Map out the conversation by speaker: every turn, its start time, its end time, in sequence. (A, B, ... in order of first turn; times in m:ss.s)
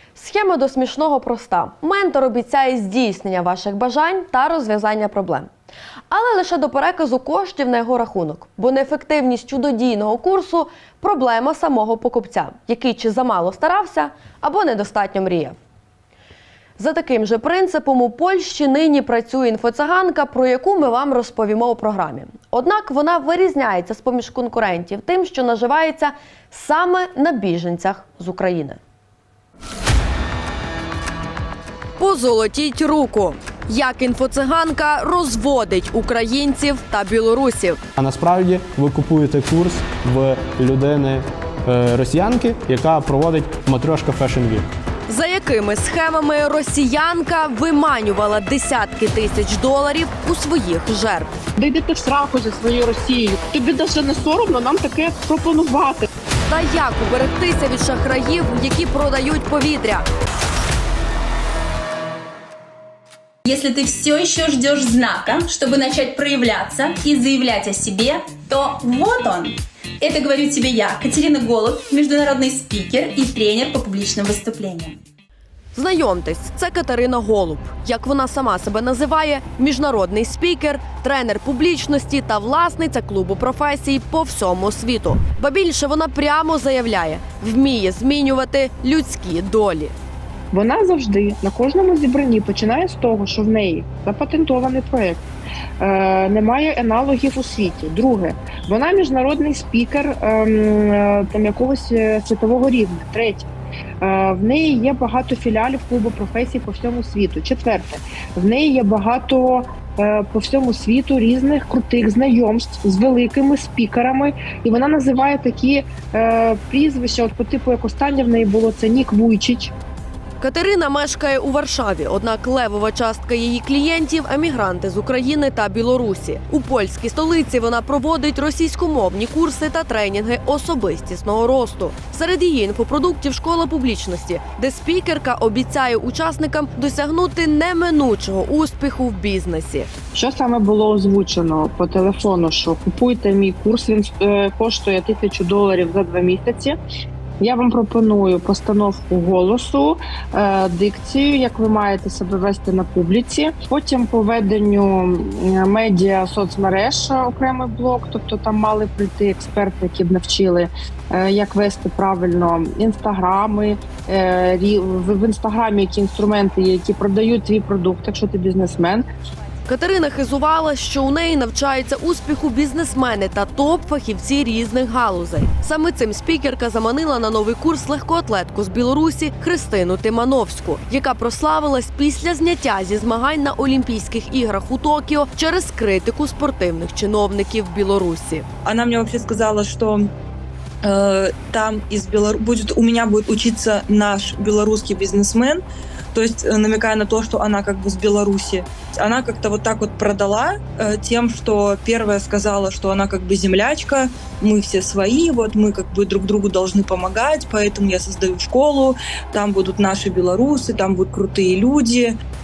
0:00.1-0:05.5 A
0:06.1-0:15.6 A
0:16.8-0:28.8 A
0:32.0-0:37.8 A
0:38.0-0:44.7 B
0:45.1-0:51.3 A
0:51.6-0:56.1 C
0:56.5-1:00.0 A
1:03.4-1:15.0 D
1:15.7-1:29.9 A
1:30.5-1:35.2 C
1:35.8-1:43.5 C
1:44.0-1:59.7 C
2:00.4-2:19.9 A
2:20.2-2:26.8 C
2:27.4-2:49.0 C
2:49.7-3:08.4 A
3:08.6-3:10.1 E
3:10.8-3:15.6 E
3:16.1-3:32.2 E